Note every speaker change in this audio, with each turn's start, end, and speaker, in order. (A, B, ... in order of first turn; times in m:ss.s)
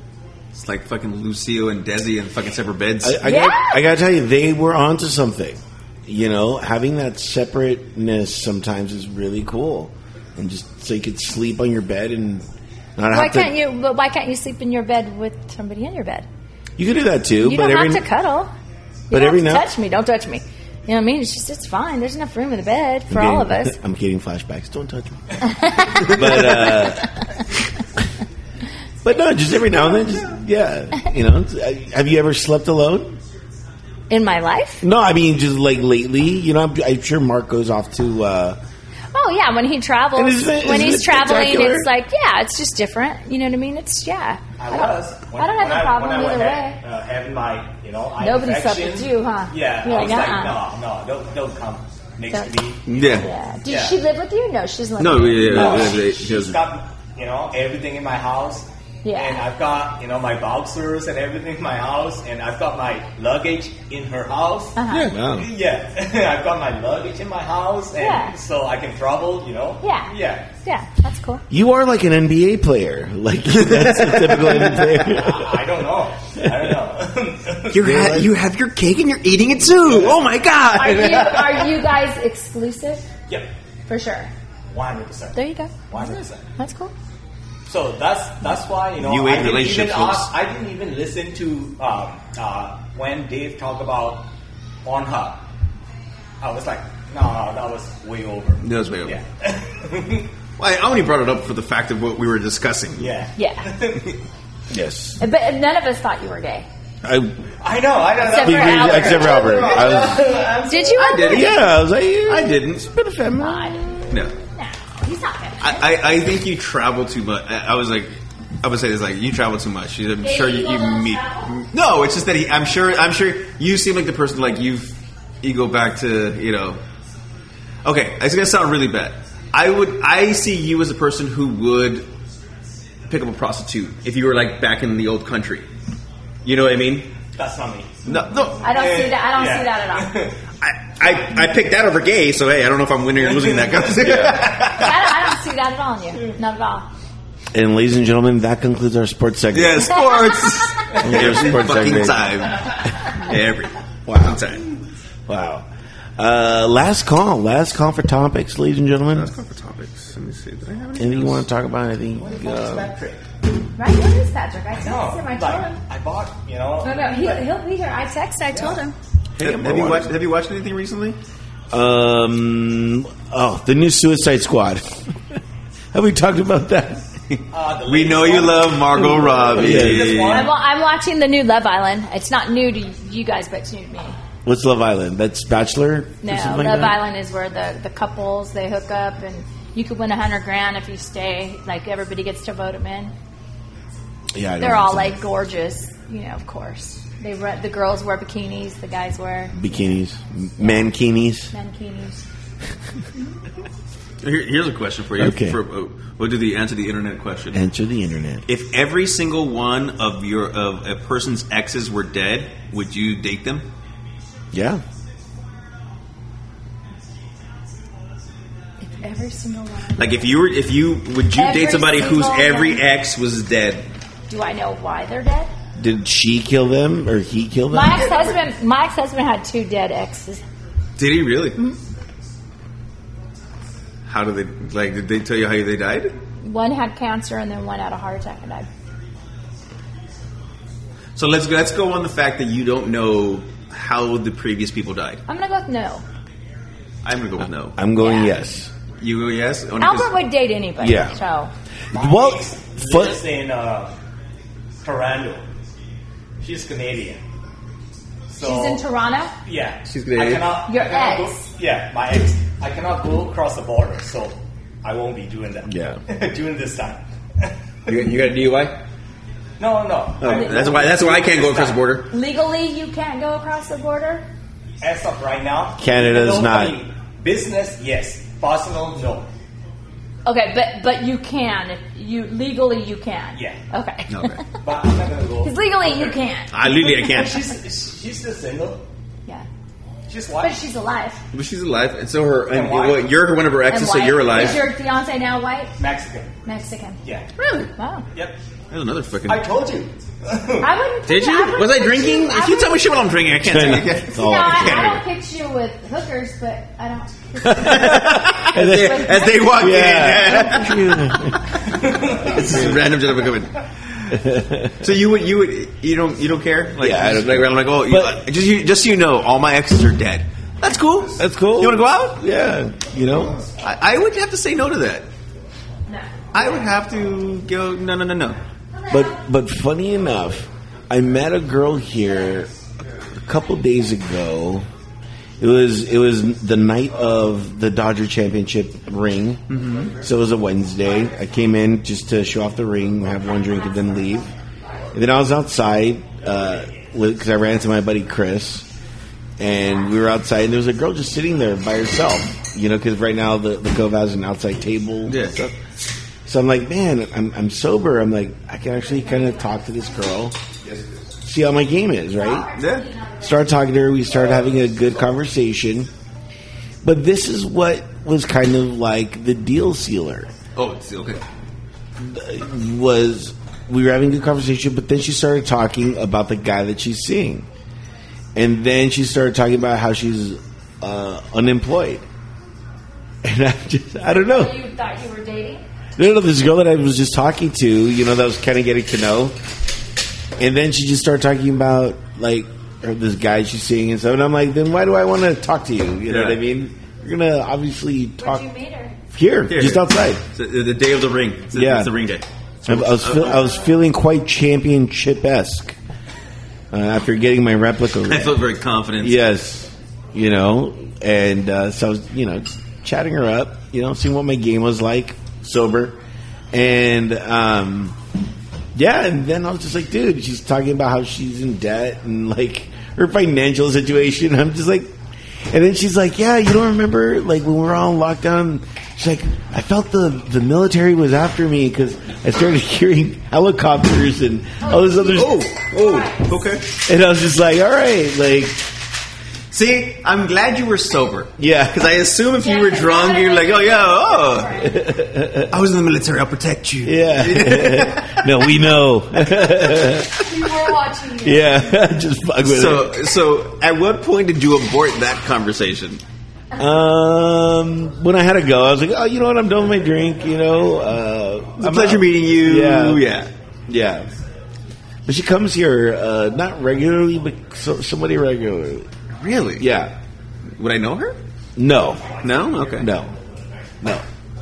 0:00.5-0:03.2 A
0:03.0-0:12.4 B
0:03.2-0:03.8 C
0:13.0-0:13.5 B
0:13.1-0:16.3 C
0:16.8-0:18.0 B
0:17.4-0:18.5 C
0:19.1-0:23.8 C
0:19.1-0:19.7 B
0:23.1-0:27.1 B
0:25.4-0:27.0 C
0:29.0-0:33.2 B
0:34.1-0:34.8 C
0:34.8-0:38.6 B
0:39.1-0:46.8 C
0:40.1-0:41.9 B
0:44.6-0:54.0 D
0:48.2-0:50.6 C
0:52.3-0:55.6 C
0:52.9-0:53.3 A
0:55.0-0:56.6 A
0:55.4-1:10.5 D
0:59.0-0:59.4 C
1:04.8-1:05.1 C
1:04.9-1:05.2 A
1:05.1-1:05.5 B
1:08.0-1:08.4 C
1:09.8-1:11.4 C
1:11.5-1:15.7 B
1:13.5-1:15.0 A
1:15.1-1:18.0 D
1:17.7-1:21.7 A
1:17.8-1:18.3 B
1:19.9-1:20.2 D
1:20.7-1:23.0 C
1:23.9-1:24.3 C
1:24.7-1:26.5 D
1:25.3-1:25.7 C
1:26.6-1:26.9 C
1:27.6-1:34.3 D
1:29.0-1:30.3 A
1:34.8-1:35.4 D
1:36.4-1:40.3 D
1:38.6-1:39.2 A
1:40.6-1:43.2 A
1:43.0-1:44.1 D
1:43.4-1:43.7 C
1:44.7-1:45.2 B
1:45.2-1:46.7 C
1:47.0-1:47.3 B
1:47.6-1:51.3 D
1:48.2-1:51.7 C
1:48.3-1:50.4 B
1:50.9-1:51.7 A
1:51.2-1:54.0 B
1:52.2-1:52.9 A
1:53.4-1:53.8 C
1:54.1-1:54.3 A
1:54.6-1:55.9 C
1:55.6-2:06.8 A
2:00.2-2:01.5 C
2:07.8-2:12.1 A
2:13.1-2:15.7 A
2:16.4-2:17.1 A
2:17.3-2:17.9 D
2:18.0-2:18.6 A
2:18.6-2:20.4 D
2:18.6-2:20.2 C
2:20.6-2:25.0 A
2:23.2-2:24.7 D
2:24.7-2:26.9 C
2:27.5-2:30.2 B
2:29.5-2:34.6 A
2:30.9-2:32.5 B
2:34.1-2:34.4 B
2:35.3-2:35.7 B
2:36.2-2:39.3 B
2:39.1-2:41.4 A
2:41.0-2:42.9 B
2:42.2-2:43.2 D
2:43.8-2:45.8 C
2:44.8-2:47.5 D
2:46.8-2:48.9 C
2:48.5-2:48.8 D
2:49.4-2:50.1 B
2:49.4-2:51.2 A
2:51.7-2:55.4 B
2:55.9-2:57.0 B
2:57.3-3:00.5 A
2:57.5-3:00.6 D
2:59.6-3:00.3 B
3:00.3-3:04.2 C
3:04.4-3:07.0 B
3:06.2-3:13.1 C
3:14.3-3:15.2 B
3:14.6-3:19.6 C
3:19.5-3:21.5 B
3:21.5-3:22.2 C
3:24.2-3:27.6 A
3:25.2-3:25.6 B
3:27.5-3:28.4 B
3:28.4-3:33.6 A
3:34.5-3:34.8 B
3:38.8-3:40.1 C
3:40.0-3:43.9 A
3:41.3-3:42.8 C
3:44.3-3:45.5 C
3:45.8-3:48.1 B
3:47.7-3:50.4 C
3:47.9-3:48.4 A
3:51.0-3:51.6 A
3:54.0-3:56.2 A
3:56.4-3:58.7 C
4:01.2-4:05.2 A
4:05.3-4:06.0 C
4:07.0-4:07.8 A
4:07.7-4:08.7 B
4:08.0-4:08.3 C
4:09.0-4:10.1 A
4:09.8-4:11.5 C
4:10.8-4:11.2 B
4:11.9-4:13.2 B
4:11.9-4:13.9 D
4:14.8-4:15.5 D
4:16.4-4:17.2 D
4:18.3-4:18.8 D
4:18.4-4:19.3 C
4:19.4-4:28.0 D
4:19.8-4:20.6 A
4:20.7-4:21.5 C
4:25.7-4:26.0 B
4:27.9-4:28.8 A
4:29.6-4:31.8 D
4:30.2-4:32.1 A
4:32.1-4:34.2 C
4:34.8-4:39.3 D
4:35.8-4:36.8 B
4:40.3-4:44.4 C
4:43.3-4:43.6 D
4:44.1-4:44.4 A
4:44.6-4:46.2 D
4:45.4-4:46.5 C
4:46.5-4:47.5 A
4:46.8-4:48.8 D
4:50.1-4:50.6 D
4:50.4-4:51.2 C
4:51.3-4:54.6 A
4:52.5-4:53.2 D
4:53.7-4:55.7 C
4:54.3-4:54.6 D
4:55.8-4:56.4 D
4:56.4-4:57.0 C
4:57.0-4:57.3 D
4:57.4-4:57.7 A
4:57.8-4:58.0 C
4:58.7-4:59.5 A
4:59.3-5:00.7 D
5:00.6-5:02.8 C
5:01.0-5:05.0 A
5:03.4-5:04.9 B
5:04.1-5:09.7 C
5:07.4-5:14.2 A
5:07.6-5:11.6 B
5:11.7-5:12.4 D
5:12.3-5:12.8 B
5:14.1-5:14.8 B
5:14.8-5:22.2 A
5:16.8-5:18.2 B
5:21.2-5:23.4 B
5:23.6-5:25.1 A
5:26.3-5:28.4 A
5:28.7-5:29.2 C
5:28.9-5:32.5 B
5:33.1-5:34.7 B
5:35.4-5:39.4 B
5:39.5-5:39.9 A
5:40.0-5:44.3 B
5:44.9-5:48.7 B
5:49.4-5:55.6 B
5:55.1-5:55.4 A
5:56.3-6:00.4 B
5:58.9-6:00.0 C
6:01.2-6:02.5 B
6:02.2-6:03.5 C
6:02.6-6:02.9 A
6:03.2-6:05.9 B
6:06.8-6:10.3 B
6:10.6-6:11.2 A
6:12.0-6:17.5 B
6:18.3-6:22.0 B
6:23.2-6:24.6 B
6:24.1-6:25.6 C
6:26.0-6:29.3 B
6:30.4-6:38.5 B
6:36.1-6:36.4 A
6:38.2-6:39.0 C
6:39.1-6:40.2 B
6:39.5-6:43.5 A
6:41.5-6:41.9 B
6:42.6-6:45.8 B
6:46.7-6:48.4 B
6:48.1-6:49.2 A
6:49.0-6:56.0 B
6:56.5-6:58.0 B
6:58.7-7:04.9 B
7:05.5-7:15.4 B
7:14.6-7:15.0 C
7:15.0-7:16.7 A
7:15.7-7:16.3 C
7:16.8-7:18.6 B
7:19.5-7:24.6 A
7:21.4-7:21.8 B
7:22.4-7:24.8 C
7:24.6-7:25.5 B
7:25.5-7:28.5 A
7:26.8-7:30.2 B
7:29.8-7:31.7 C
7:31.2-7:32.9 B
7:32.4-7:36.0 A
7:36.6-7:43.0 B
7:41.6-7:43.3 A
7:43.7-7:44.1 B
7:45.0-7:48.9 B
7:49.1-7:49.7 A
7:49.6-7:49.9 B
7:50.6-7:51.2 A
7:51.6-7:52.1 B
7:52.2-7:52.9 A
7:52.7-7:53.1 B